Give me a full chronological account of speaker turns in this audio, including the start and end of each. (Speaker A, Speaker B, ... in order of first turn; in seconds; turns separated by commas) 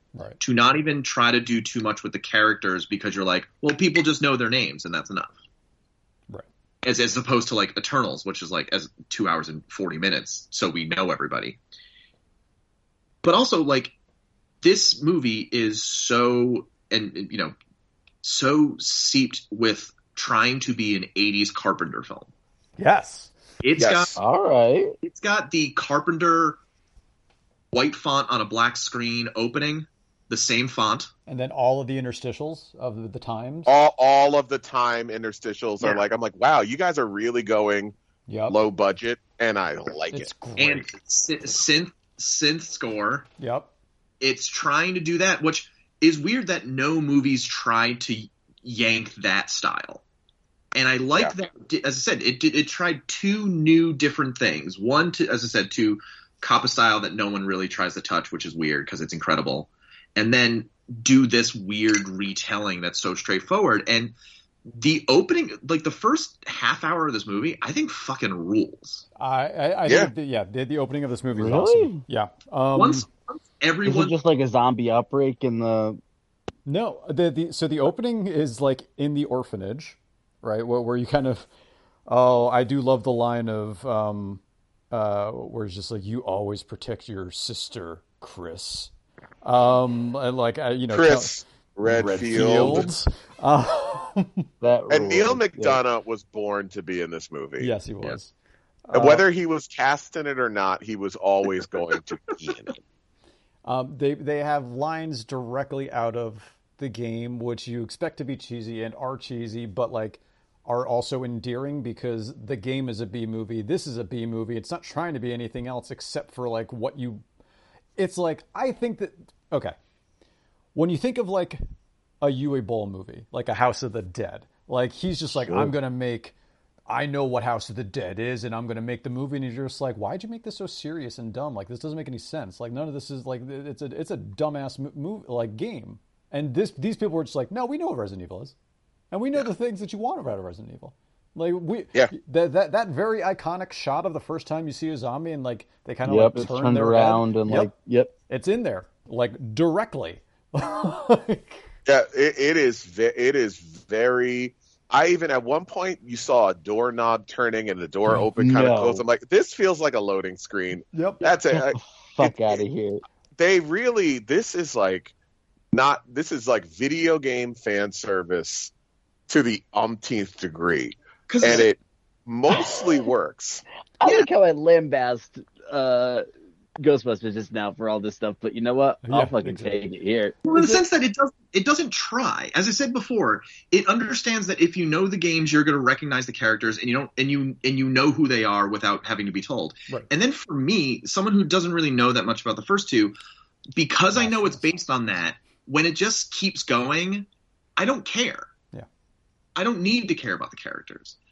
Speaker A: 0.1-0.4, Speaker B: 0.4-5.3, Speaker B: 6.8-11.6, Speaker B: 13.2-13.9, Speaker B: 14.6-17.5, Speaker B: 18.2-22.3, Speaker A: 22.8-23.3, Speaker B: 23.6-24.1, Speaker C: 23.8-24.2, Speaker D: 24.1-24.9, Speaker B: 25.0-26.6, Speaker B: 27.7-31.1, Speaker A: 31.3-33.7, Speaker C: 33.7-38.0, Speaker A: 38.3-38.6, Speaker C: 38.5-40.3, Speaker A: 40.1-40.9, Speaker B: 40.6-43.3, Speaker A: 43.4-43.7, Speaker B: 44.2-50.0, Speaker B: 50.8-64.1, Speaker B: 64.7-69.0, Speaker A: 69.2-73.1, Speaker C: 69.9-70.1, Speaker D: 71.4-72.0, Speaker B: 72.8-74.1, Speaker D: 73.9-76.0, Speaker A: 76.7-81.5, Speaker A: 82.1-88.9, Speaker A: 89.4-94.5, Speaker C: 90.9-92.9, Speaker D: 94.6-95.8, Speaker C: 94.9-97.7, Speaker A: 97.6-98.3, Speaker A: 98.9-99.2, Speaker C: 98.9-102.8, Speaker A: 103.7-117.2, Speaker A: 118.0-119.8, Speaker A: 120.8-121.6, Speaker A: 122.2-126.3, Speaker A: 126.9-138.6, Speaker A: 139.1-147.7, Speaker D: 146.1-148.1, Speaker A: 148.3-151.6, Speaker C: 151.8-162.6, Speaker D: 158.4-159.0, Speaker A: 160.9-161.2, Speaker D: 161.7-163.0, Speaker C: 163.4-165.1, Speaker C: 165.7-168.7, Speaker C: 169.3-173.6, Speaker B: 171.3-171.7, Speaker D: 174.0-176.2, Speaker D: 176.8-180.8, Speaker A: 179.1-179.7, Speaker B: 180.4-193.2, Speaker B: 193.8-198.5, Speaker A: 194.1-194.8, Speaker B: 199.6-201.2